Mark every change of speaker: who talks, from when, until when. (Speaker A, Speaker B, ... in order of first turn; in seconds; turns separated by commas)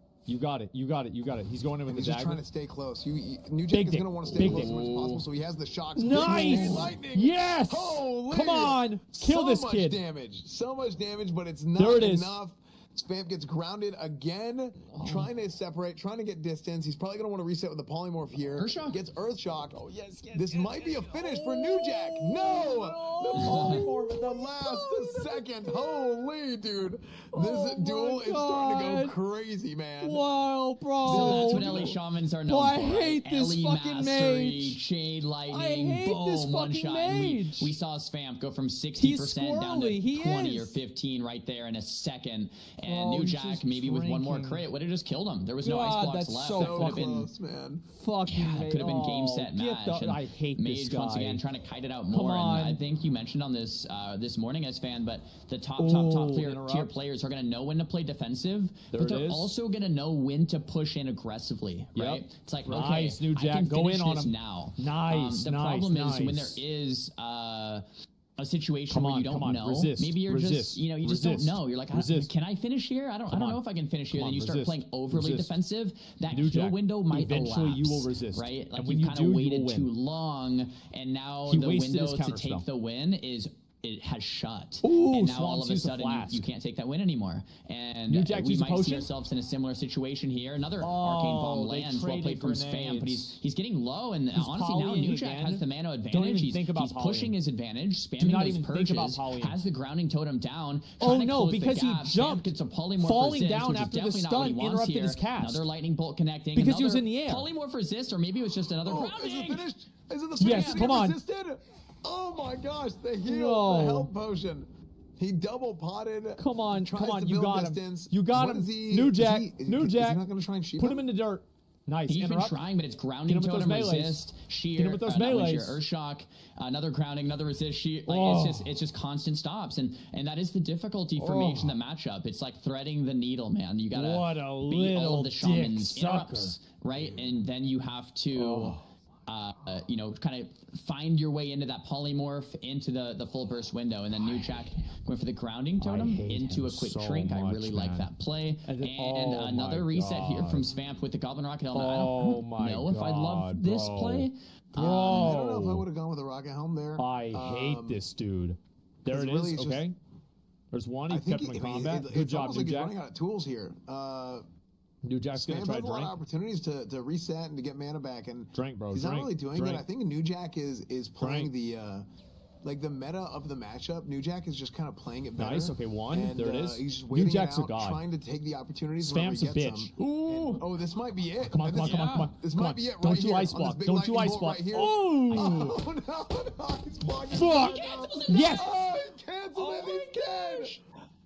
Speaker A: 0.2-2.4, Speaker B: 1.9-19.8, Speaker A: 3.7-5.2, Speaker C: 4.4-4.7, Speaker A: 6.0-10.0, Speaker A: 11.8-12.4, Speaker A: 15.0-15.3, Speaker C: 18.5-19.0, Speaker A: 19.7-26.3, Speaker B: 20.3-30.3, Speaker C: 23.3-23.8, Speaker A: 27.3-29.1, Speaker A: 30.0-31.9, Speaker C: 31.0-47.2, Speaker B: 31.1-32.0, Speaker A: 32.5-34.8, Speaker A: 35.5-37.7, Speaker A: 39.0-40.8, Speaker A: 42.8-44.6, Speaker A: 45.6-47.3, Speaker B: 46.5-47.9, Speaker A: 47.9-51.4, Speaker C: 48.3-67.8, Speaker A: 52.1-52.8, Speaker A: 55.8-56.9, Speaker A: 58.9-59.5, Speaker A: 61.9-66.6, Speaker C: 68.4-109.6, Speaker A: 68.9-72.3, Speaker A: 73.3-75.5, Speaker A: 76.3-79.9, Speaker A: 81.5-82.7, Speaker A: 84.8-86.5, Speaker A: 88.1-89.1, Speaker A: 90.8-93.3, Speaker A: 94.3-97.3, Speaker A: 98.2-99.6, Speaker A: 101.0-105.6, Speaker A: 106.5-107.5, Speaker B: 108.8-121.1, Speaker C: 110.4-110.9, Speaker A: 110.4-111.2, Speaker A: 113.2-114.1, Speaker A: 116.4-120.2, Speaker A: 120.8-122.6, Speaker C: 122.1-154.3, Speaker A: 123.3-124.2, Speaker A: 124.8-125.8, Speaker A: 128.1-128.7, Speaker A: 131.2-131.8, Speaker A: 133.9-136.6, Speaker A: 138.3-138.8, Speaker A: 145.8-148.1, Speaker A: 148.7-150.7, Speaker A: 151.7-155.9, Speaker B: 154.7-158.0, Speaker A: 157.0-159.9, Speaker B: 159.1-159.8, Speaker A: 160.7-162.9, Speaker B: 161.1-164.4, Speaker A: 165.0-166.1, Speaker B: 165.4-172.1, Speaker A: 168.5-169.8, Speaker A: 171.2-171.5, Speaker B: 172.6-190.8, Speaker A: 175.4-178.0, Speaker A: 179.0-179.9, Speaker C: 180.0-180.7, Speaker A: 181.4-185.8, Speaker C: 181.8-182.3, Speaker A: 187.3-188.8, Speaker C: 187.4-188.9, Speaker C: 189.5-190.8